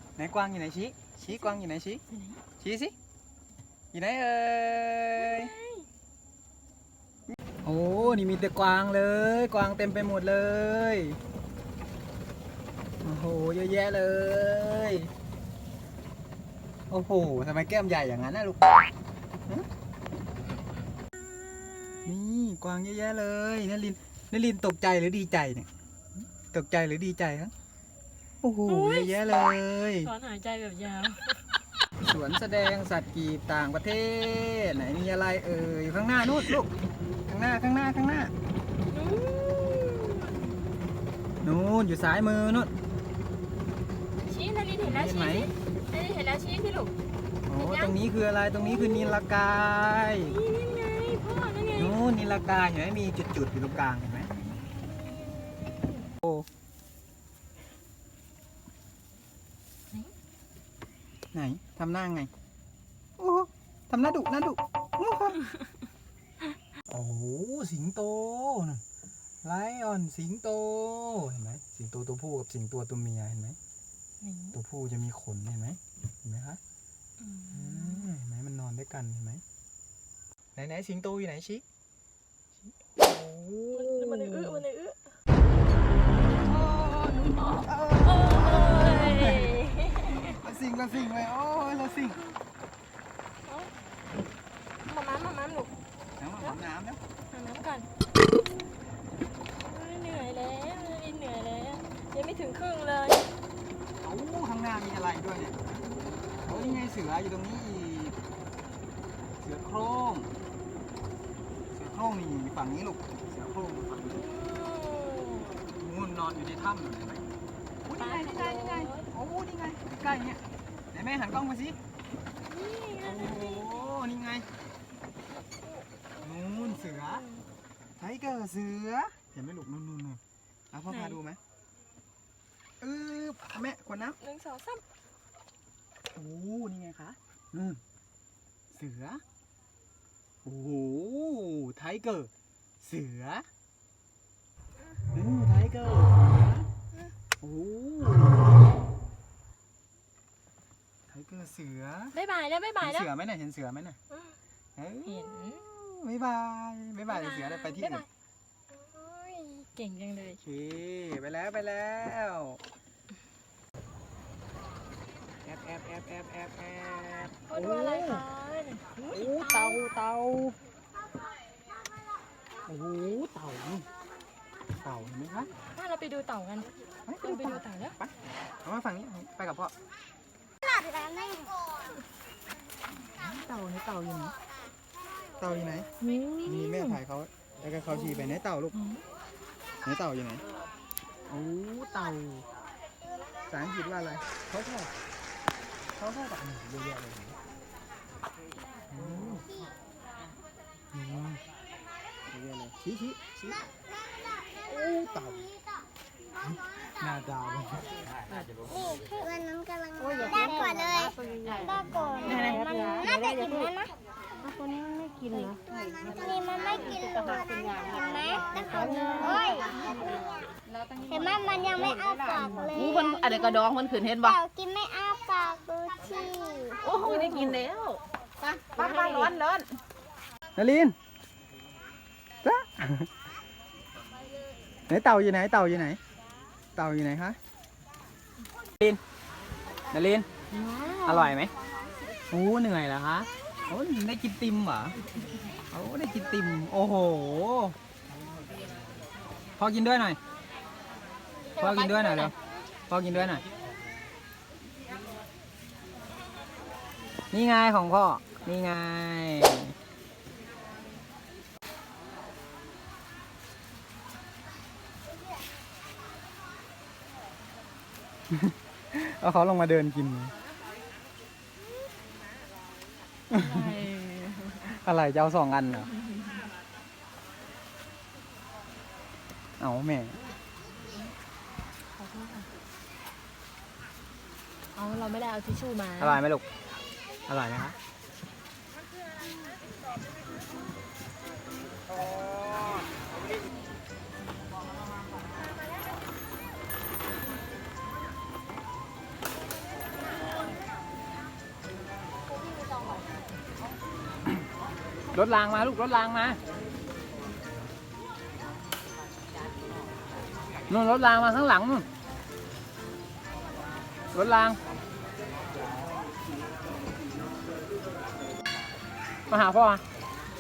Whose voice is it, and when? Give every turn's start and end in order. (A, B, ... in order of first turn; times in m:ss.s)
0:00.2-0:02.0 A
0:01.3-0:02.4 B
0:02.6-0:02.9 A
0:03.9-0:05.5 A
0:05.2-0:05.9 B
0:07.6-0:11.2 A
0:13.0-0:15.1 A
0:16.9-0:18.7 A
0:22.0-0:25.7 A
0:26.5-0:27.5 A
0:28.4-0:30.1 A
0:28.7-0:31.4 B
0:32.0-0:36.7 A
0:37.3-0:38.3 A
0:38.9-0:40.6 B
0:41.4-0:42.7 A
0:44.3-0:46.9 B
0:44.8-0:45.5 A
0:47.5-0:50.4 A
0:47.6-0:49.2 B
0:50.2-0:52.0 B
0:51.8-0:54.3 A
0:54.8-0:56.1 B
1:01.3-1:02.3 A
1:03.2-1:05.4 A
1:06.9-1:08.8 A
1:09.4-1:13.6 A
1:14.2-1:14.6 B
1:14.5-1:16.6 A
1:17.2-1:18.1 B
1:17.5-1:19.4 A
1:20.6-1:21.6 A
1:22.9-1:24.6 A
1:23.7-1:25.0 B
1:26.4-1:29.6 A
1:27.4-1:30.4 B
1:30.1-1:32.3 A
1:33.5-1:33.7 B
1:34.8-1:35.7 B
1:36.2-1:37.0 A
1:37.3-1:37.9 B
1:39.6-1:43.3 B
1:44.0-1:45.6 A
1:45.9-1:46.8 B
1:46.4-1:48.2 A
1:49.4-1:50.3 A
1:51.7-1:54.2 A
1:54.1-1:55.7 B
1:55.8-1:57.3 A
1:57.8-2:01.8 A
1:58.0-1:59.1 B
2:02.4-2:04.0 B
2:03.0-2:04.5 A
2:05.6-2:07.5 B
2:06.2-2:07.2 A
2:08.0-2:10.2 A
2:10.7-2:11.4 A
2:10.9-2:11.2 B
2:12.8-2:14.2 A
2:14.2-2:14.8 B
2:16.1-2:17.8 A
2:18.7-2:19.2 A
2:20.4-2:23.5 A
2:25.1-2:26.7 A
2:27.4-2:28.5 A
2:31.1-2:32.2 A
2:32.1-2:33.1 B
2:32.8-2:34.0 A
2:34.8-2:38.0 A
2:35.0-2:35.6 B
2:37.1-2:38.1 B
2:38.7-2:40.4 B
2:40.4-2:42.6 A
2:45.4-2:48.2 A
2:47.5-2:49.8 B
2:49.1-2:50.6 A
2:52.7-2:53.9 A
2:54.8-2:55.5 A
2:55.7-2:56.7 B
2:57.1-2:58.1 A
2:57.2-2:58.0 B
2:58.6-2:59.7 A
3:00.6-3:01.4 C
3:03.1-3:04.4 A
3:05.4-3:05.9 A
3:06.0-3:07.0 B
3:06.4-3:08.8 A
3:08.1-3:09.0 B
3:09.8-3:10.4 A
3:11.3-3:12.5 A
3:13.5-3:14.9 A
3:16.0-3:17.4 A
3:18.9-3:19.5 A
3:20.9-3:21.4 A
3:22.3-3:23.7 A
3:24.6-3:25.5 A
3:26.4-3:28.0 A
3:28.7-3:33.9 C
3:32.2-3:33.0 A
3:36.1-3:40.3 C
3:41.1-3:43.6 C
3:42.7-3:44.4 D
3:44.2-3:47.3 C
3:46.8-3:49.8 D
3:50.6-3:51.0 A
3:52.4-3:53.1 A
3:54.9-3:56.0 A
3:56.8-3:57.4 A
3:59.9-4:00.3 A
4:00.5-4:01.3 B
4:01.0-4:01.5 A
4:02.3-4:05.0 A
4:05.7-4:07.8 A
4:09.6-4:10.2 A
4:11.6-4:12.3 A
4:11.6-4:12.3 B
4:12.9-4:13.4 A
4:17.3-4:19.8 A
4:28.3-4:30.3 A
4:33.3-4:33.8 A
4:33.3-4:34.6 B
4:34.6-4:35.9 A
4:39.6-4:40.2 A
4:41.9-4:42.5 B
4:44.8-4:46.2 B
4:46.0-4:46.4 A
4:47.3-4:47.8 A
5:02.6-5:02.8 B
5:05.1-5:06.4 A
5:10.7-5:11.9 A
5:14.1-5:14.6 A
5:19.3-5:19.8 A